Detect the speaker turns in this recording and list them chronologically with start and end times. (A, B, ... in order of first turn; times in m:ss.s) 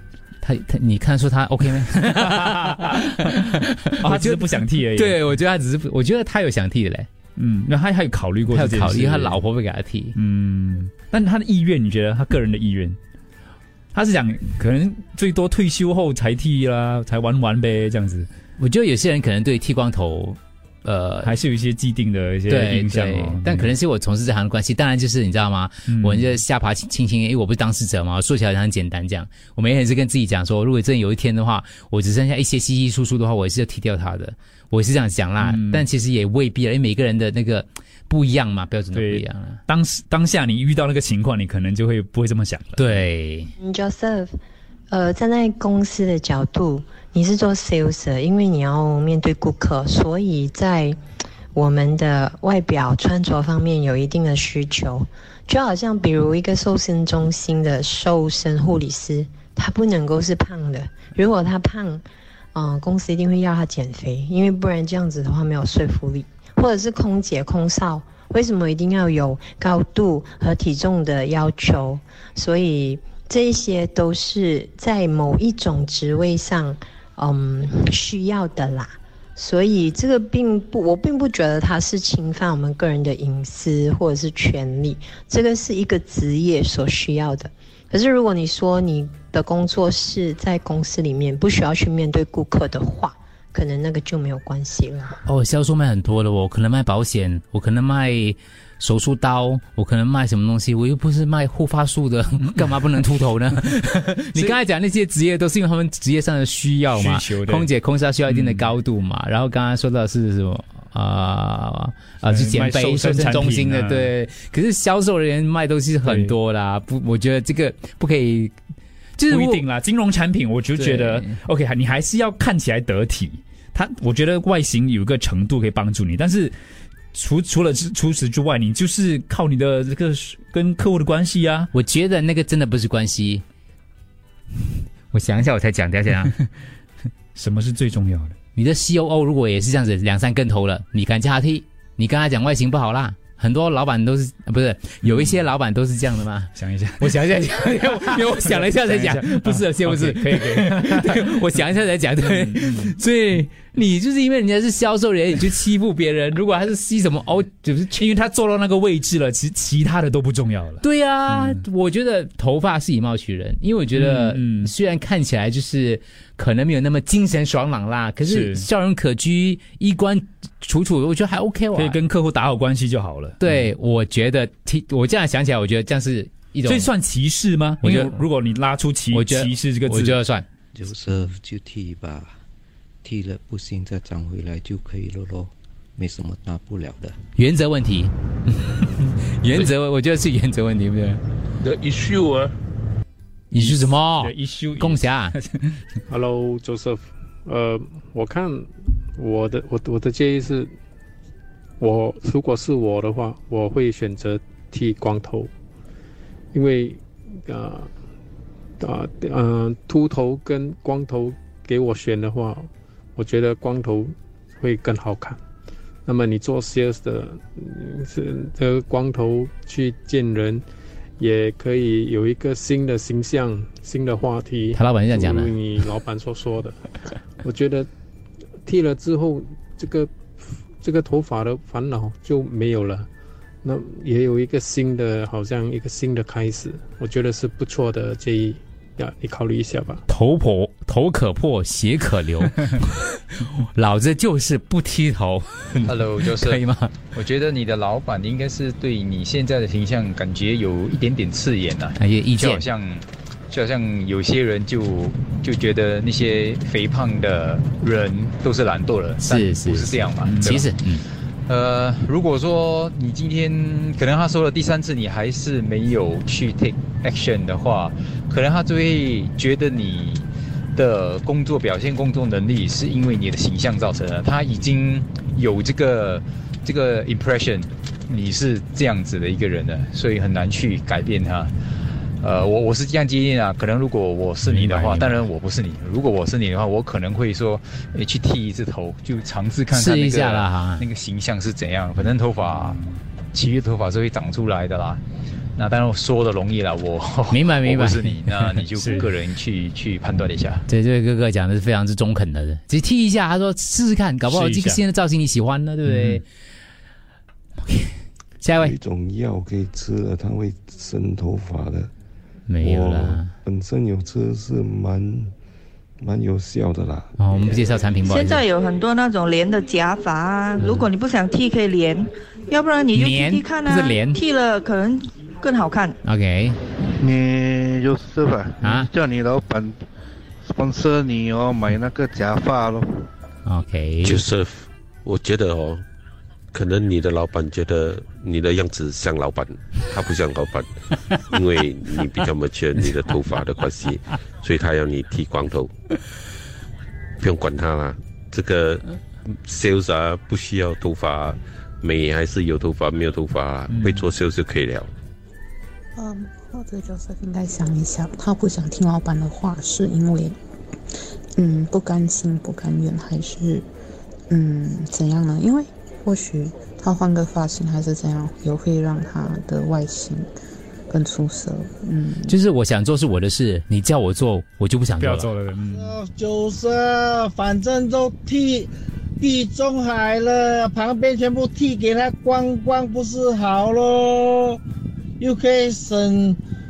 0:00.4-0:07.1 A
0:03.1-0:03.4 B
0:04.0-0:05.2 B
0:07.4-0:09.4 B
0:08.5-0:10.1 A
0:10.1-0:13.0 B
0:13.9-0:18.3 B
0:18.6-0:21.3 A
0:21.2-0:23.7 B
0:22.5-0:39.6 A
0:25.9-0:26.4 B
0:35.4-0:35.8 B
0:38.9-0:43.0 B
0:42.8-0:43.5 A
0:43.6-0:44.4 C
0:44.9-0:51.0 C
0:51.5-1:02.0 C
1:02.5-1:35.1 C
1:35.2-1:58.5 A
1:42.4-1:42.9 B
1:46.9-1:47.7 B
1:48.3-1:48.7 B
1:52.2-1:54.1 B
1:56.0-1:56.4 B
1:59.2-1:59.6 A
1:59.3-2:06.5 B
2:00.8-2:01.3 A
2:07.1-2:11.7 B
2:11.7-2:13.4 A
2:15.1-2:16.3 A
2:17.3-2:18.3 B
2:18.6-2:38.1 A
2:25.0-2:25.4 B
2:26.6-2:31.2 B
2:32.3-2:32.9 B
2:38.0-2:41.6 B
2:40.8-2:52.0 A
2:43.9-2:44.7 B
2:48.2-2:48.6 B
2:51.7-2:53.4 B
2:53.4-2:56.9 A
2:56.6-3:00.2 B
2:57.8-2:58.2 A
2:59.1-3:00.4 A
3:00.7-3:02.4 D
3:03.0-3:07.2 D
3:07.4-3:11.2 A
3:13.5-3:15.3 A
3:13.6-3:15.8 B
3:16.1-3:20.7 E
3:21.8-3:25.5 E
3:26.5-3:27.9 E
3:28.8-3:35.4 E
3:36.0-3:40.6 E
3:41.2-3:46.9 E
3:44.7-3:45.5 A
3:47.4-3:47.9 E
3:48.6-3:53.1 E
3:53.6-4:00.0 E
4:00.1-4:06.9 A
4:05.9-4:06.6 F
4:07.1-4:20.3 F
4:12.0-4:12.6 A
4:19.2-4:21.0 A
4:20.2-4:20.6 B
4:21.5-4:41.5 F
4:42.2-4:52.8 F
4:44.4-4:44.7 B
4:44.6-4:45.3 A
4:49.7-4:50.8 A
4:52.5-4:53.0 B
4:53.3-4:55.0 F
4:55.6-5:00.6 F
4:57.3-4:58.2 A
4:58.7-4:59.1 B
5:00.7-5:06.2 A
5:04.3-5:04.8 B
5:05.8-5:06.2 B
5:07.7-5:08.8 A
5:08.6-5:11.9 G
5:12.5-5:13.3 A
5:12.6-5:15.3 G
5:16.0-5:17.5 G
5:17.2-5:18.4 A
5:18.1-5:25.9 H
5:20.6-5:20.9 A
5:22.9-5:24.2 A
5:26.0-5:26.6 A
5:27.0-5:29.8 I
5:28.6-5:28.9 A
5:30.4-5:33.0 I
5:33.4-5:34.2 A
5:34.0-5:35.8 J
5:36.5-5:40.7 J
5:41.3-5:45.7 J
5:47.2-5:54.9 J
5:53.7-5:54.0 B
5:56.0-6:00.4 K
6:01.4-6:03.6 K
6:04.3-6:10.3 K
6:10.9-6:12.4 K
6:12.2-6:15.3 A
6:15.0-6:16.0 B
6:15.7-6:18.7 L
6:19.2-6:24.6 L
6:25.2-6:26.4 L